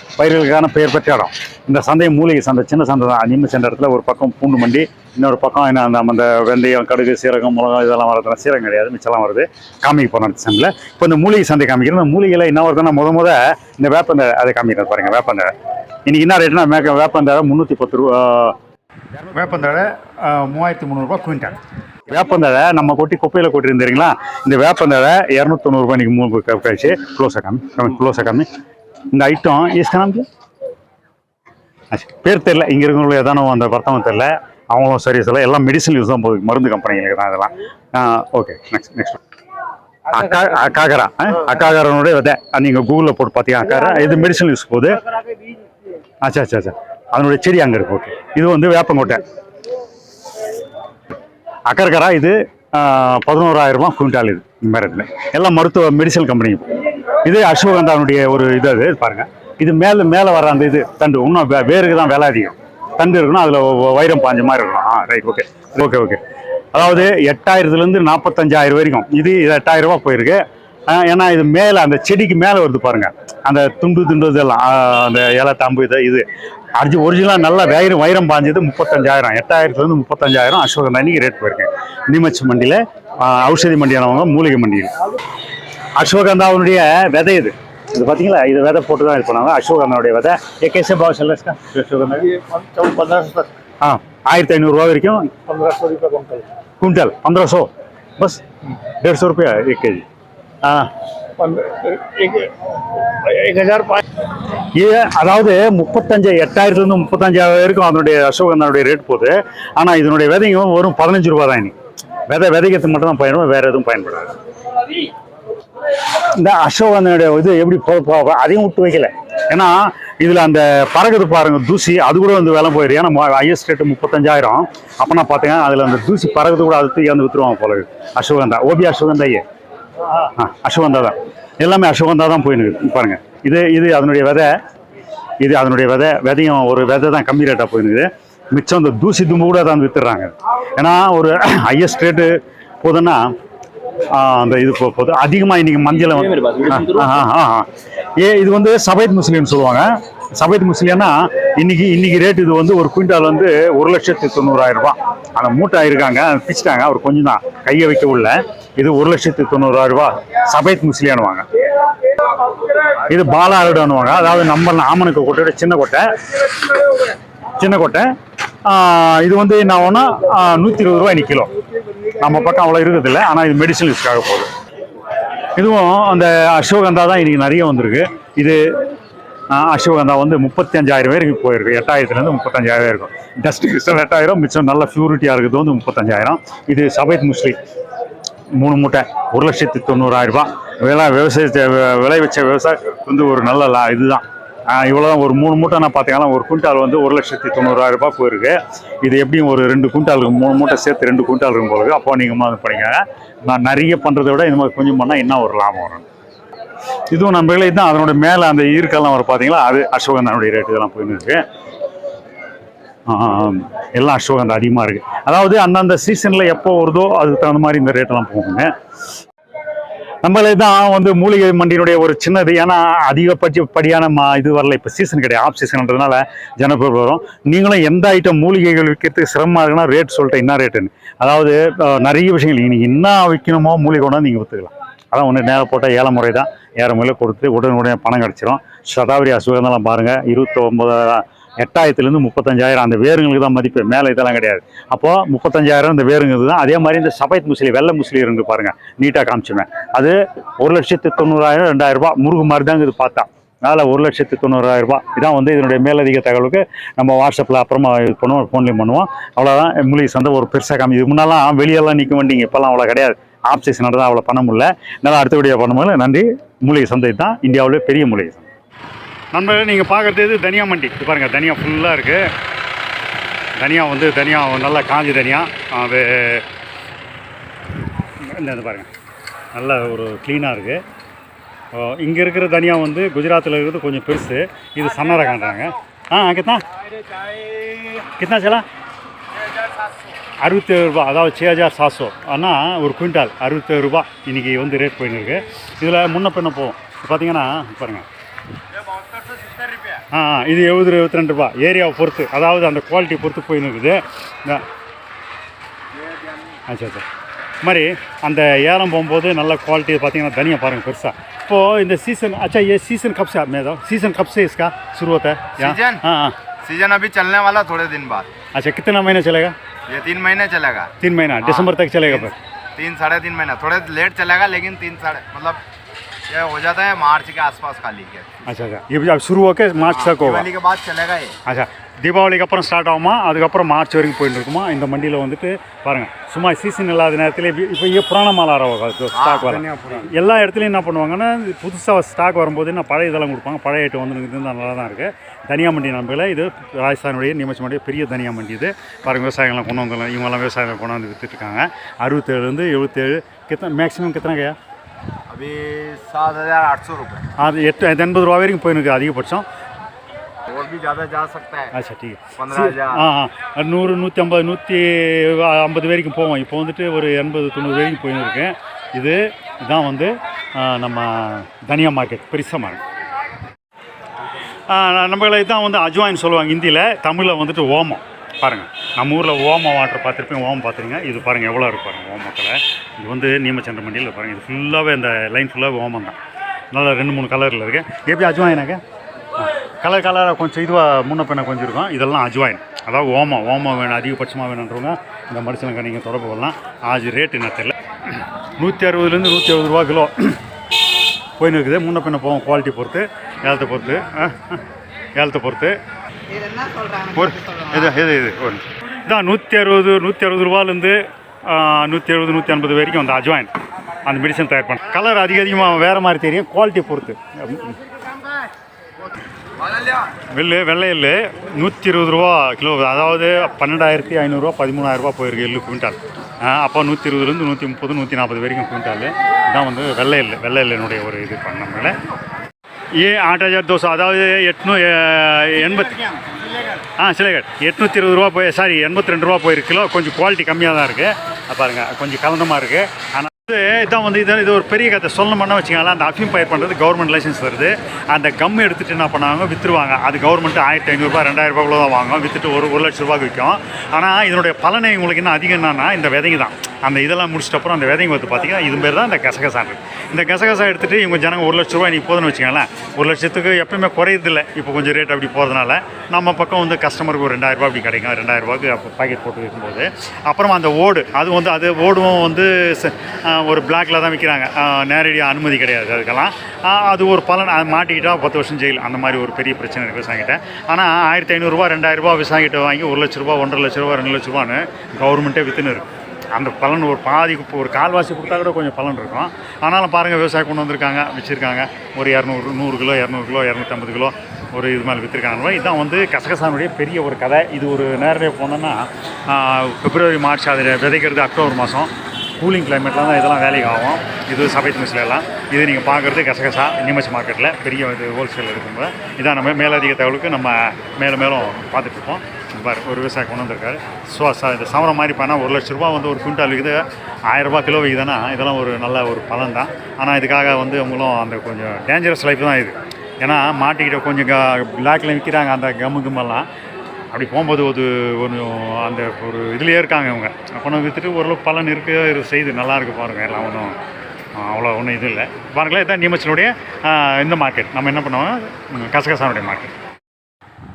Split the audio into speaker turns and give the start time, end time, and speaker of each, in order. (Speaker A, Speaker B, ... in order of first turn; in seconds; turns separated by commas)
Speaker A: 0.2-15.5, Speaker A: 16.1-18.6, Speaker A: 19.2-28.5, Speaker A: 29.1-30.3, Speaker A: 31.9-39.2, Speaker A: 40.1-45.0, Speaker A: 46.2-49.2, Speaker A: 51.7-66.2, Speaker A: 66.7-76.2, Speaker A: 76.8-84.9, Speaker A: 86.0-92.4, Speaker B: 92.3-93.5, Speaker A: 93.8-95.4, Speaker B: 95.5-96.5, Speaker A: 96.8-100.0, Speaker A: 100.6-100.9, Speaker B: 101.4-104.0, Speaker A: 104.8-111.7, Speaker A: 112.3-114.3, Speaker A: 116.2-129.4, Speaker A: 130.1-134.5, Speaker A: 135.4-143.3, Speaker A: 144.1-161.5, Speaker B: 146.4-147.1, Speaker A: 162.9-166.7, Speaker A: 167.6-168.1, Speaker A: 168.6-171.5, Speaker A: 172.1-174.5, Speaker A: 175.6-178.6, Speaker A: 179.5-187.6, Speaker A: 188.5-206.1, Speaker A: 207.1-211.4, Speaker A: 213.1-218.7, Speaker A: 220.2-268.5, Speaker A: 269.3-272.3, Speaker A: 273.6-276.5, Speaker A: 278.2-278.9, Speaker A: 279.5-280.8, Speaker A: 281.7-286.8, Speaker A: 287.3-288.6, Speaker A: 290.4-298.1, Speaker A: 299.9-304.7, Speaker A: 306.7-307.1, Speaker A: 307.6-316.4, Speaker C: 315.6-316.0, Speaker C: 316.6-318.3, Speaker A: 318.6-319.6, Speaker C: 319.9-325.6, Speaker A: 321.0-322.4, Speaker C: 326.3-328.4, Speaker A: 328.4-330.5, Speaker C: 329.9-331.4, Speaker A: 331.4-354.6, Speaker C: 339.1-340.1, Speaker C: 355.3-357.3, Speaker A: 357.4-359.5, Speaker C: 360.5-361.7, Speaker A: 361.7-372.8, Speaker C: 362.4-363.0, Speaker A: 374.7-386.2, Speaker A: 386.7-388.8, Speaker A: 389.4-400.4, Speaker A: 401.4-404.6, Speaker A: 405.2-405.8, Speaker B: 406.5-406.8, Speaker A: 407.0-413.5, Speaker A: 414.1-417.8, Speaker A: 420.1-432.0, Speaker A: 432.9-526.5, Speaker A: 527.1-533.8, Speaker A: 534.4-539.7